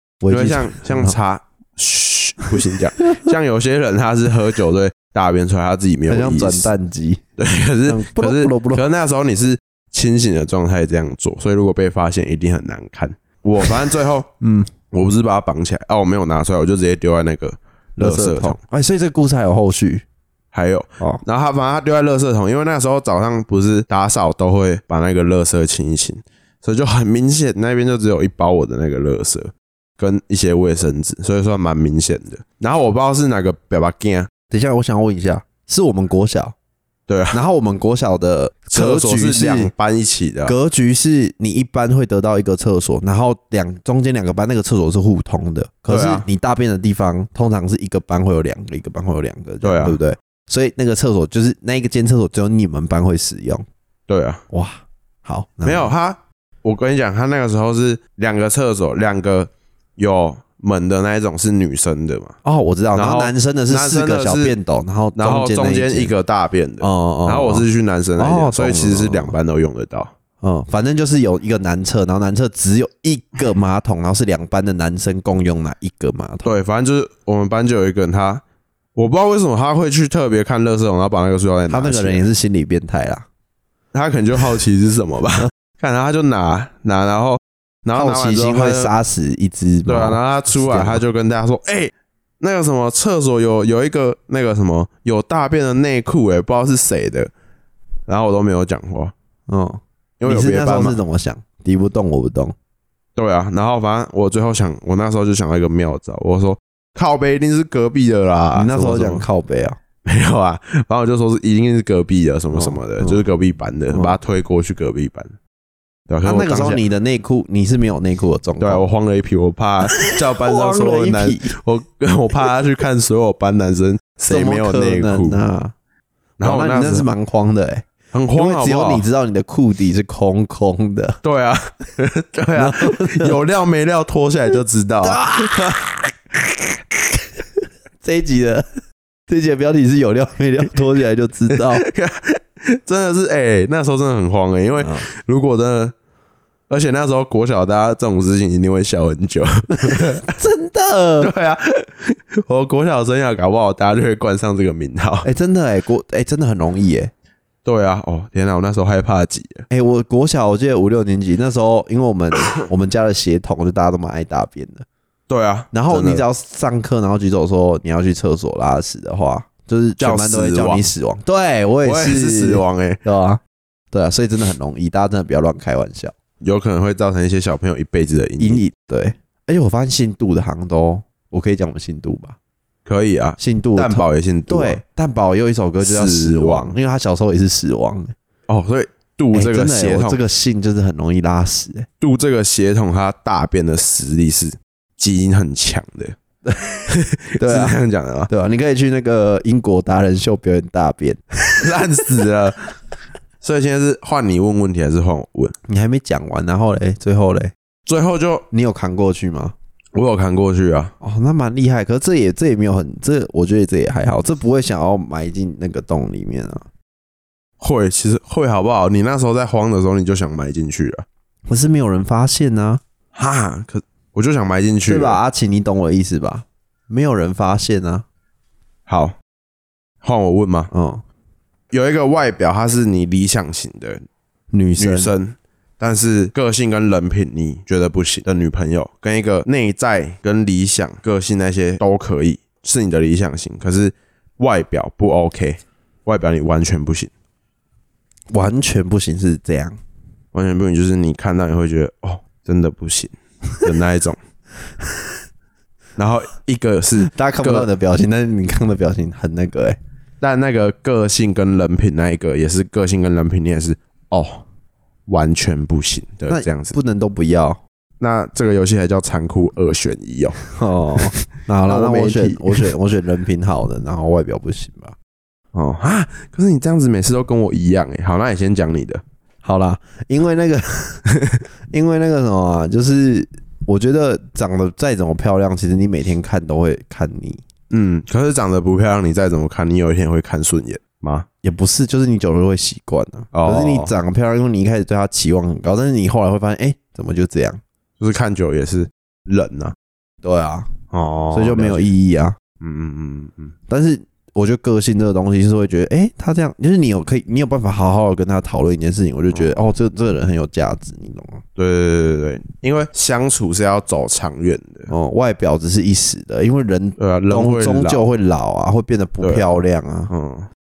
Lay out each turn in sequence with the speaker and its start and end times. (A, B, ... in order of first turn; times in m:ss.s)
0:00.2-0:01.2 A
0:00.3-0:06.7 B
0:06.1-0:07.2 A
0:07.4-0:14.3 B
0:07.9-0:08.8 A
0:14.4-0:14.7 A
0:14.9-0:18.6 B
0:18.0-0:20.0 A
0:20.5-0:34.3 B
0:34.5-0:36.6 A
0:37.1-0:37.4 B
0:37.3-0:39.7 A
0:38.7-0:40.5 B
0:40.5-0:53.6 A
0:45.9-0:46.3 B
0:49.6-0:50.0 B
0:54.1-0:54.4 B
0:54.5-0:55.9 A
0:55.6-1:02.4 B
1:02.4-1:06.1 A
1:03.0-1:04.6 B
1:05.2-1:10.1 B
1:06.8-1:07.7 A
1:08.2-1:09.4 A
1:10.4-1:16.5 A
1:16.4-1:18.4 B
1:19.0-1:22.3 B
1:21.7-1:23.3 A
1:23.9-1:28.9 B
1:28.0-1:31.0 A
1:29.9-1:37.3 B
1:38.1-1:39.1 B
1:39.5-1:42.5 A
1:40.2-1:41.0 B
1:43.2-1:49.2 B
1:48.5-1:49.8 A
1:50.0-1:55.4 B
1:52.5-1:53.2 A
1:56.1-1:56.8 B
1:56.2-1:58.8 A
1:58.6-2:05.4 B
1:59.9-2:01.6 A
2:04.3-2:05.8 A
2:06.4-2:07.1 B
2:06.4-2:11.2 A
2:08.1-2:09.0 B
2:11.2-2:15.8 B
2:12.6-2:13.4 A
2:15.0-2:16.0 A
2:18.0-2:18.7 A
2:19.3-2:21.9 A
2:21.5-2:26.0 B
2:24.8-2:25.1 A
2:26.7-2:30.3 B
2:29.8-2:31.3 A
2:31.2-2:35.3 B
2:35.2-2:37.1 A
2:37.6-2:39.7 B
2:39.7-2:44.9 A
2:45.3-2:46.2 B
2:45.7-2:53.4 A
2:50.0-2:50.8 B
2:51.8-2:53.0 B
2:53.9-2:56.1 A
2:56.4-2:58.6 B
2:58.4-3:02.4 A
3:02.8-3:04.8 B
3:03.4-3:08.1 A
3:05.8-3:06.8 B
3:08.5-3:10.2 B
3:09.3-3:11.9 A
3:12.0-3:16.2 B
3:16.5-3:16.9 A
3:16.9-3:18.3 B
3:17.4-3:17.8 A
3:18.3-3:21.7 A
3:21.6-3:22.6 B
3:23.4-3:25.6 B
3:25.7-3:27.5 A
3:27.9-3:28.5 B
3:28.5-3:29.6 A
3:29.9-3:30.9 B
3:31.0-3:36.7 A
3:37.6-3:41.1 B
3:41.5-3:42.8 A
3:43.1-3:45.2 B
3:44.9-3:48.0 A
3:48.9-3:49.2 B
3:50.0-3:50.7 B
3:50.7-3:51.0 A
3:51.7-3:54.0 B
3:54.5-3:55.1 A
3:54.8-4:07.1 B
4:08.3-4:09.8 A
4:10.3-4:14.2 B
4:16.0-4:17.7 B
4:17.0-4:19.8 A
4:20.2-4:24.4 B
4:25.1-4:26.8 B
4:26.3-4:27.6 A
4:28.0-4:30.4 B
4:30.5-4:35.0 A
4:31.7-4:32.7 B
4:35.5-4:39.0 B
4:39.4-4:41.0 A
4:41.7-4:47.4 A
4:47.7-4:51.3 B
4:51.4-4:57.6 A
4:53.3-4:53.9 B
4:58.0-4:59.8 B
5:00.2-5:00.7 A
5:00.9-5:01.9 B
5:01.3-5:02.4 A
5:02.6-5:03.5 B
5:03.7-5:11.4 A
5:11.6-5:14.9 B
5:14.9-5:20.1 A
5:17.0-5:18.0 B
5:19.2-5:20.5 B